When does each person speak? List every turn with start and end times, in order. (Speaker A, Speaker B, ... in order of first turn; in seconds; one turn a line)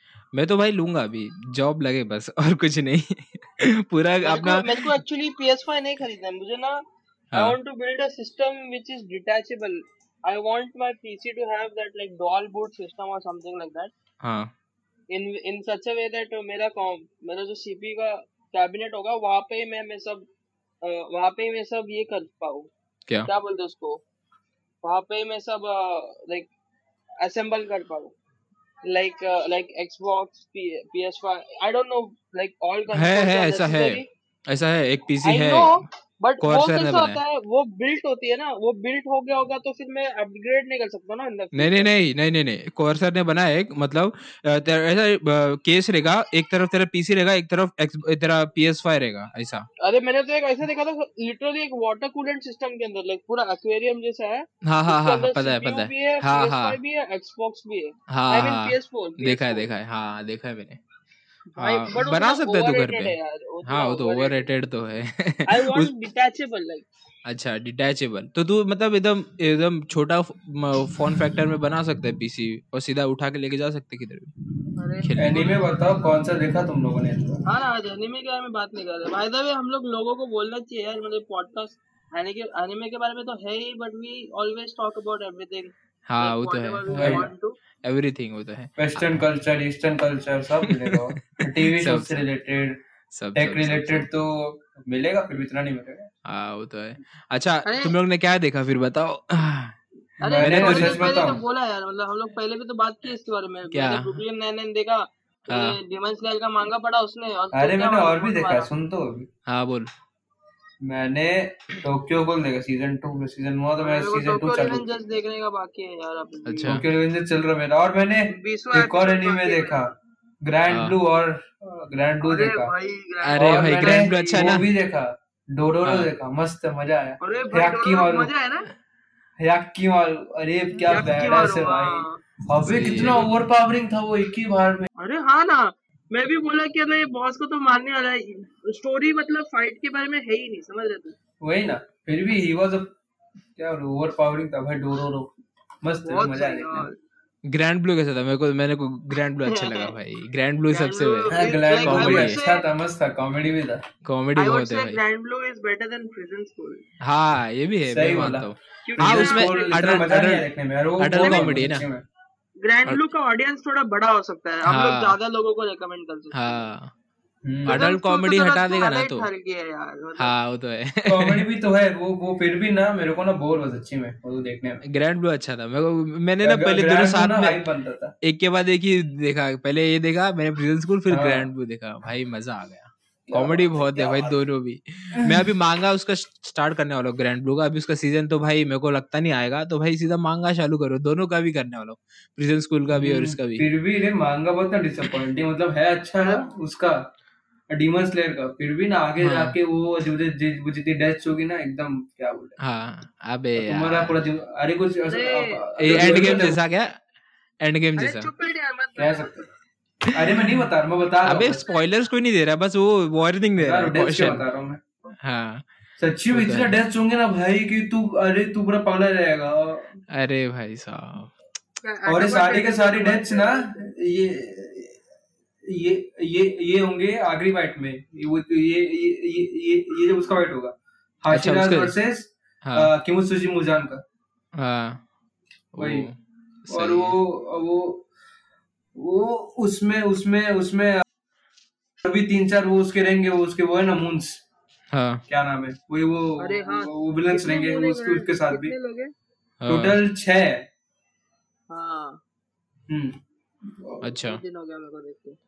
Speaker A: 0.3-4.9
Speaker B: 4.2-13.9
Speaker A: 7.3-7.6
Speaker A: 14.2-14.5
Speaker B: 15.1-20.3
Speaker B: 20.8-22.7
Speaker B: 23.3-24.0
Speaker B: 24.8-26.5
Speaker B: 27.2-28.1
Speaker B: 28.9-34.1
Speaker A: 32.9-35.8
Speaker B: 35.2-41.9
Speaker A: 36.4-37.2
Speaker A: 41.5-49.7
Speaker B: 49.8-59.7
Speaker A: 54.6-56.8
Speaker A: 58.1-60.8
Speaker B: 61.5-64.5
Speaker A: 61.6-65.9
Speaker B: 65.5-66.9
Speaker A: 67.3-74.3
Speaker B: 74.8-75.6
Speaker A: 75.0-75.5
Speaker C: 75.2-77.4
Speaker B: 77.5-87.6
Speaker A: 86.1-87.3
Speaker C: 86.9-87.3
Speaker A: 87.8-89.2
Speaker C: 88.8-92.8
Speaker A: 90.6-92.2
Speaker A: 93.1-94.1
Speaker C: 93.3-96.1
Speaker A: 96.3-99.8
Speaker B: 97.7-97.9
Speaker B: 100.2-108.7
Speaker C: 100.3-101.4
Speaker A: 100.3-101.0
Speaker A: 103.7-104.2
Speaker A: 105.5-105.8
Speaker C: 107.5-109.3
Speaker A: 109.5-109.9
Speaker C: 110.8-114.8
Speaker B: 113.8-116.8
Speaker A: 116.5-116.8
Speaker C: 116.7-119.9
Speaker B: 118.3-119.9
Speaker C: 120.4-122.7
Speaker A: 120.7-121.0
Speaker B: 122.2-124.6
Speaker A: 123.2-124.7
Speaker C: 123.4-128.3
Speaker A: 125.8-126.1
Speaker B: 127.2-128.7
Speaker C: 129.4-134.9
Speaker B: 130.8-132.2
Speaker A: 132.7-133.3
Speaker B: 135.0-141.2
Speaker C: 141.4-142.9
Speaker C: 143.6-146.9
Speaker B: 146.0-147.0
Speaker A: 147.5-152.4
Speaker B: 149.5-149.9
Speaker B: 150.7-152.7
Speaker C: 151.3-153.8
Speaker A: 154.0-155.0
Speaker B: 154.4-156.8
Speaker A: 157.0-160.5
Speaker C: 157.9-162.1
Speaker B: 158.8-159.9
Speaker A: 161.0-161.9
Speaker B: 161.2-161.5
Speaker B: 162.6-166.7
Speaker A: 164.7-165.2
Speaker A: 166.3-166.9
Speaker C: 167.4-167.8
Speaker A: 167.7-169.3
Speaker B: 167.7-170.3
Speaker A: 170.2-171.4
Speaker C: 171.1-174.8
Speaker A: 174.8-177.6
Speaker C: 176.4-178.1
Speaker A: 178.2-193.7
Speaker C: 181.1-181.5
Speaker C: 183.3-184.3
Speaker C: 185.2-185.4
Speaker C: 192.9-197.0
Speaker B: 196.2-196.5
Speaker C: 197.7-202.6
Speaker A: 199.2-199.6
Speaker A: 202.6-204.2
Speaker C: 203.6-206.6
Speaker B: 205.1-206.5
Speaker A: 205.8-207.0
Speaker A: 207.6-208.3
Speaker B: 208.0-209.4
Speaker C: 209.0-209.4
Speaker A: 210.1-210.4
Speaker C: 210.1-211.6
Speaker A: 211.2-214.4
Speaker C: 213.6-214.8
Speaker A: 215.2-215.7
Speaker C: 216.0-219.9
Speaker A: 216.3-216.8
Speaker A: 220.1-221.3
Speaker B: 221.8-223.9
Speaker C: 222.1-225.0
Speaker C: 225.7-234.0
Speaker A: 231.3-231.9
Speaker A: 232.6-232.9
Speaker A: 234.6-235.0
Speaker A: 235.7-237.2
Speaker C: 235.8-236.1
Speaker C: 236.7-238.1
Speaker C: 238.9-241.0
Speaker C: 242.0-244.4
Speaker A: 244.9-245.2
Speaker C: 245.3-248.7
Speaker B: 246.4-249.1
Speaker A: 249.6-250.0
Speaker C: 249.7-250.7
Speaker B: 251.7-252.2
Speaker C: 252.9-254.0
Speaker A: 254.0-254.4
Speaker B: 254.2-255.4